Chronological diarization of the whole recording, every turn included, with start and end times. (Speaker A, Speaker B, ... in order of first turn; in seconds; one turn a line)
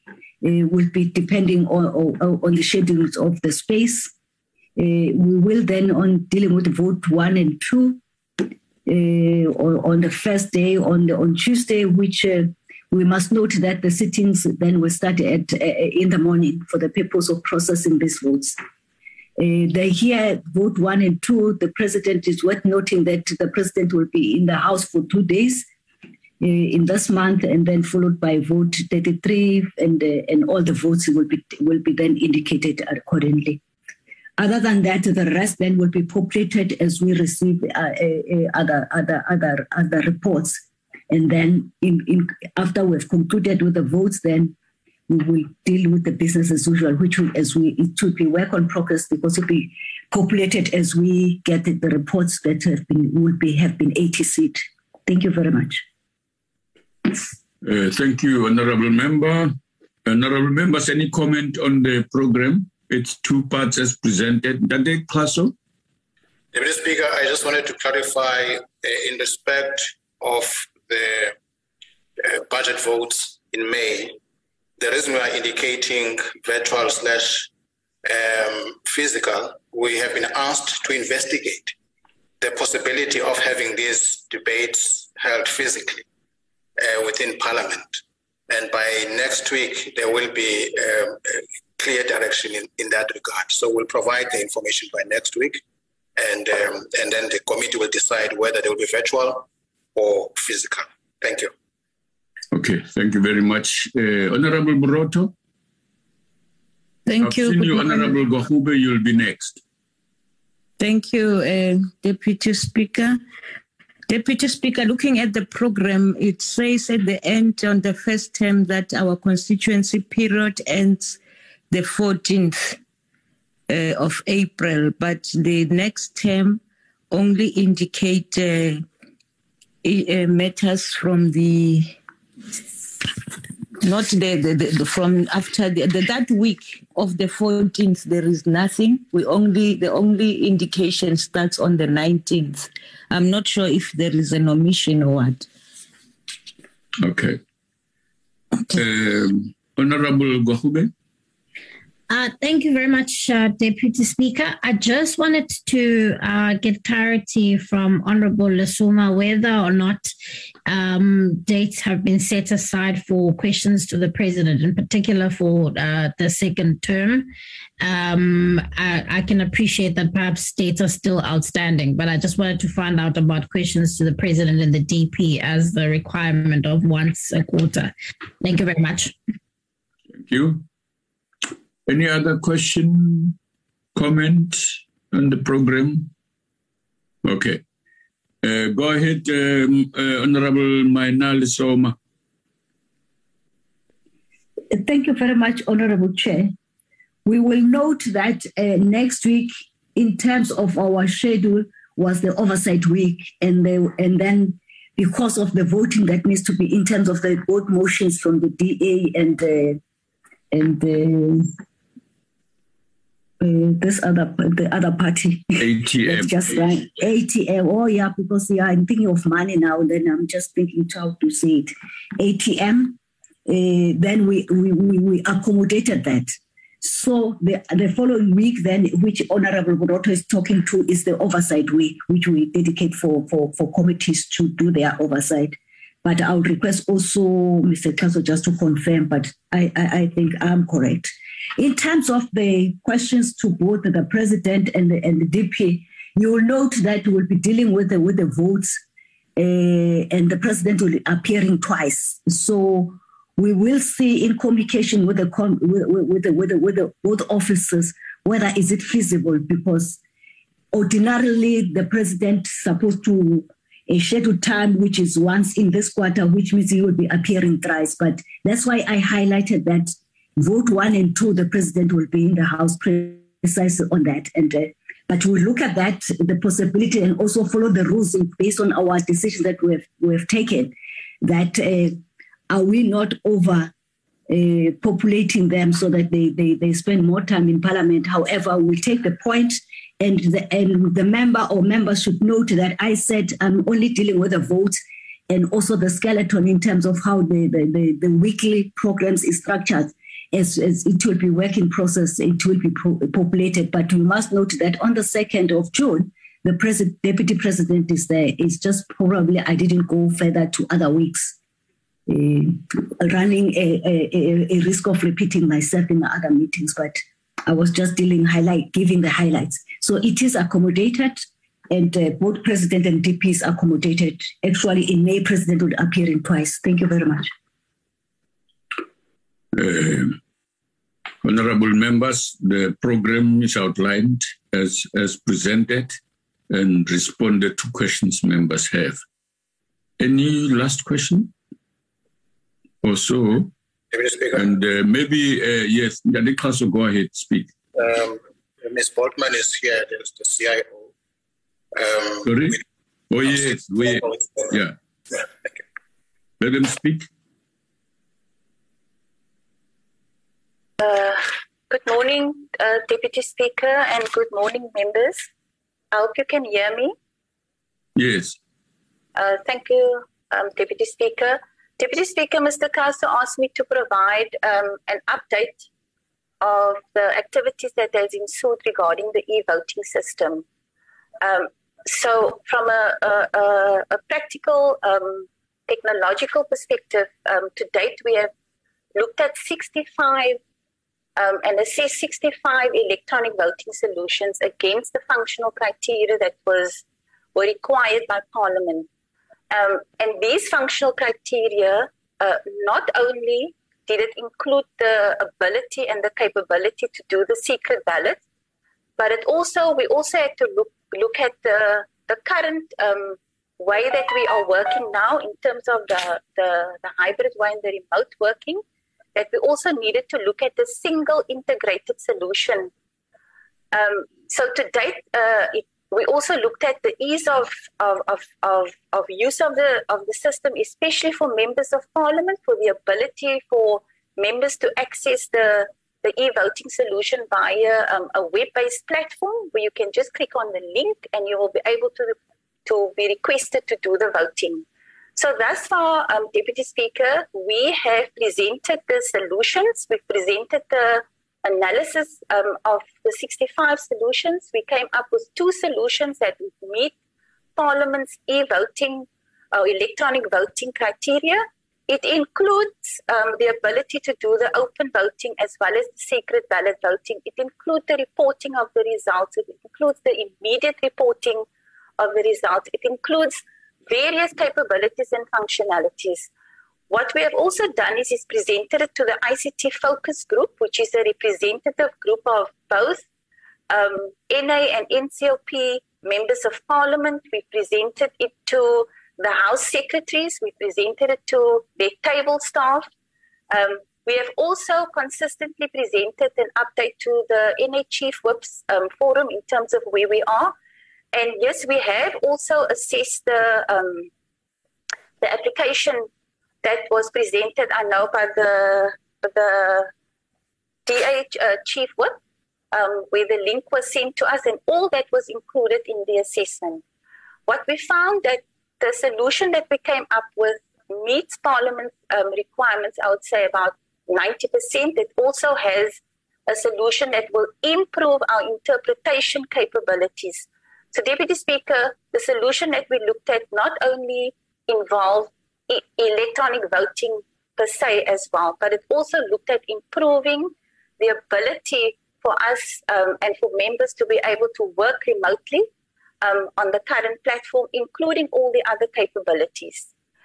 Speaker A: 0.4-4.1
Speaker A: 4.8-8.0
Speaker A: 8.9-18.6
Speaker A: 19.4-25.6
Speaker A: 26.4-33.6
Speaker A: 34.4-44.5
Speaker A: 45.1-55.8
Speaker B: 57.6-59.5
Speaker B: 60.0-65.5
Speaker C: 66.5-71.4
Speaker C: 72.2-74.2
Speaker C: 74.8-77.5
Speaker C: 78.0-81.7
Speaker C: 82.4-86.0
Speaker C: 86.8-95.6
Speaker C: 96.2-101.5
Speaker B: 102.5-105.3
Speaker D: 107.0-108.2
Speaker B: 107.2-109.6
Speaker D: 110.8-113.2
Speaker D: 114.1-121.2
Speaker D: 121.7-122.8
Speaker D: 123.7-128.8
Speaker D: 129.8-131.9
Speaker D: 133.8-145.5
Speaker B: 147.0-147.4
Speaker B: 148.7-150.9
Speaker E: 152.1-160.1
Speaker E: 160.7-179.1
Speaker B: 180.2-180.6
Speaker B: 181.9-183.4
Speaker B: 183.9-186.1
Speaker B: 187.2-187.6
Speaker B: 188.4-191.9
Speaker A: 194.7-196.5
Speaker A: 197.2-209.8
Speaker A: 210.5-211.5
Speaker A: 213.4-248.8
Speaker B: 215.6-216.5
Speaker A: 249.4-260.0
Speaker A: 260.7-282.0
Speaker A: 282.5-283.7
Speaker A: 284.3-311.4
Speaker A: 312.1-327.3
Speaker B: 329.5-330.2
Speaker B: 331.2-336.0
Speaker B: 336.5-339.0
Speaker B: 340.0-341.3
Speaker B: 342.8-343.5
Speaker C: 343.9-344.5
Speaker B: 344.3-347.5
Speaker C: 347.7-350.9
Speaker C: 351.7-352.5
Speaker B: 352.2-354.7
Speaker C: 353.3-354.5
Speaker B: 356.4-357.1
Speaker F: 360.8-365.3
Speaker F: 365.9-366.9
Speaker B: 367.9-368.4
Speaker F: 369.1-375.6
Speaker F: 376.4-380.4
Speaker F: 381.2-388.3
Speaker F: 388.9-390.4
Speaker F: 391.2-396.8
Speaker F: 397.3-398.9
Speaker F: 399.5-408.2
Speaker F: 409.0-418.6
Speaker F: 419.1-422.7
Speaker F: 423.7-444.6
Speaker F: 445.1-456.9
Speaker F: 457.6-471.4
Speaker F: 472.0-476.3
Speaker F: 476.9-483.0
Speaker F: 483.7-492.9
Speaker F: 493.5-500.5
Speaker F: 501.1-504.1
Speaker F: 505.2-506.1
Speaker F: 506.6-509.9
Speaker F: 510.9-512.2
Speaker F: 512.7-516.8
Speaker F: 517.5-545.7
Speaker F: 546.2-549.9